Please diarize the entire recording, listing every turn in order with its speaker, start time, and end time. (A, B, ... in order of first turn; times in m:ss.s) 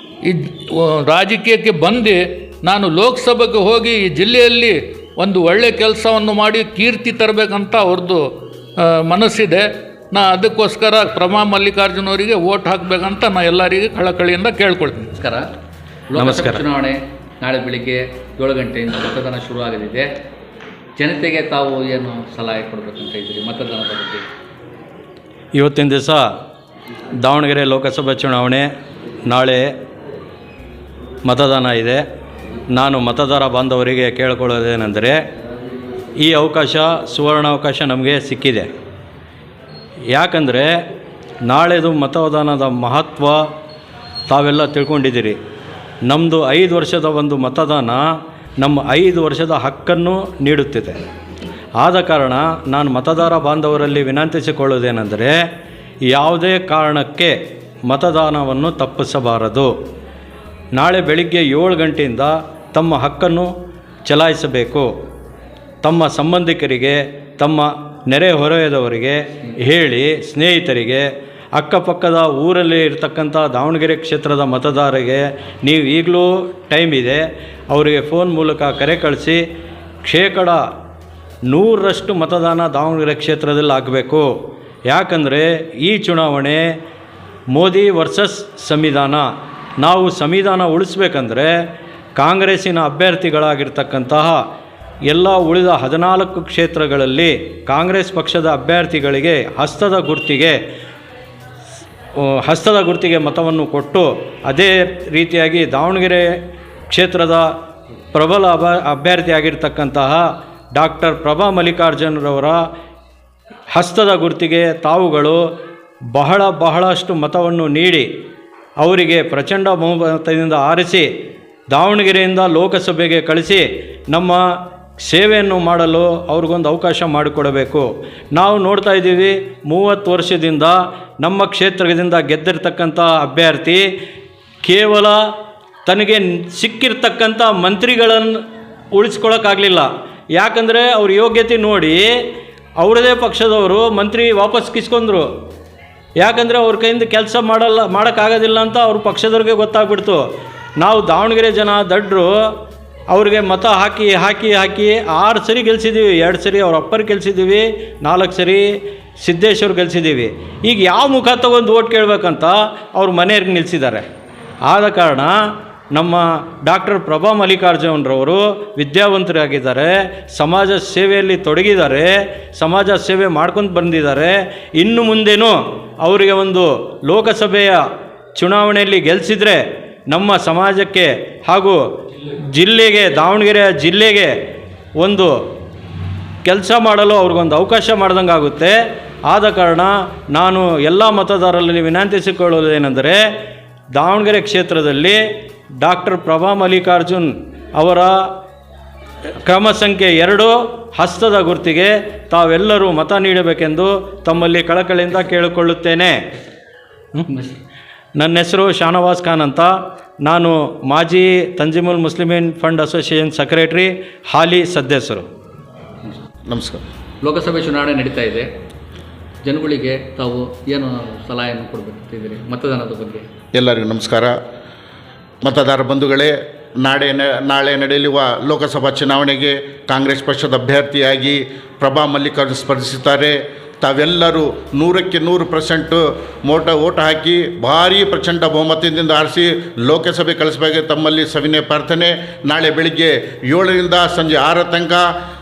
0:00.2-0:08.2 A
0:08.8-0:15.1 A
0:15.2-0:15.4 B
0:16.1-0:20.1 B
0:16.2-0:16.6 C
0:21.0-0:24.3 B
0:25.5-0:26.2 C
0:27.2-0:28.7 C
0:29.2-0:29.7 C
0:31.2-0:32.0 C
0:32.7-0:35.2 C
0:36.2-0:38.7 C
0:40.1-0:40.7 C
0:41.5-0:43.4 C
0:44.3-0:45.4 C
0:46.0-0:48.0 C
0:48.6-0:51.0 C
0:51.8-0:55.4 C
0:56.1-0:57.4 C
0:57.9-0:59.7 C
1:00.8-1:03.5 C
1:04.0-1:04.9 C
1:05.8-1:19.4 C
1:20.0-1:20.6 C
1:21.5-1:24.3 C
1:24.9-1:26.6 C
1:27.5-1:29.2 C
1:29.8-1:31.5 C
1:32.2-1:34.4 C
1:35.1-1:40.6 C
1:42.2-1:46.3 C
1:46.9-1:47.4 C
1:48.1-1:50.2 C
1:50.8-1:52.6 C
1:53.7-1:55.4 C
1:56.1-1:58.1 C
1:58.8-2:01.1 C
2:01.7-2:04.4 C
2:05.0-2:13.8 C
2:14.6-2:15.2 C
2:15.8-2:18.4 C
2:18.9-2:22.1 C
2:22.8-2:25.3 C
2:26.2-2:30.2 C
2:30.8-2:32.3 C
2:33.1-2:38.7 C
2:39.2-2:44.0 C
2:44.6-2:45.4 C
2:45.9-2:57.8 C
2:58.4-3:01.8 C
3:02.5-3:04.3 C
3:05.0-3:05.3 C
3:06.4-3:08.8 C
3:09.3-3:13.2 C
3:14.0-3:15.2 C
3:15.8-3:18.2 C
3:19.4-3:26.2 C
3:27.3-3:27.6 B
3:28.2-3:29.7 C
3:30.2-3:35.3 C
3:36.5-3:36.8 D
3:37.2-3:38.5 B
3:39.4-3:43.2 B
3:43.5-3:44.3 D
3:45.4-4:05.1 D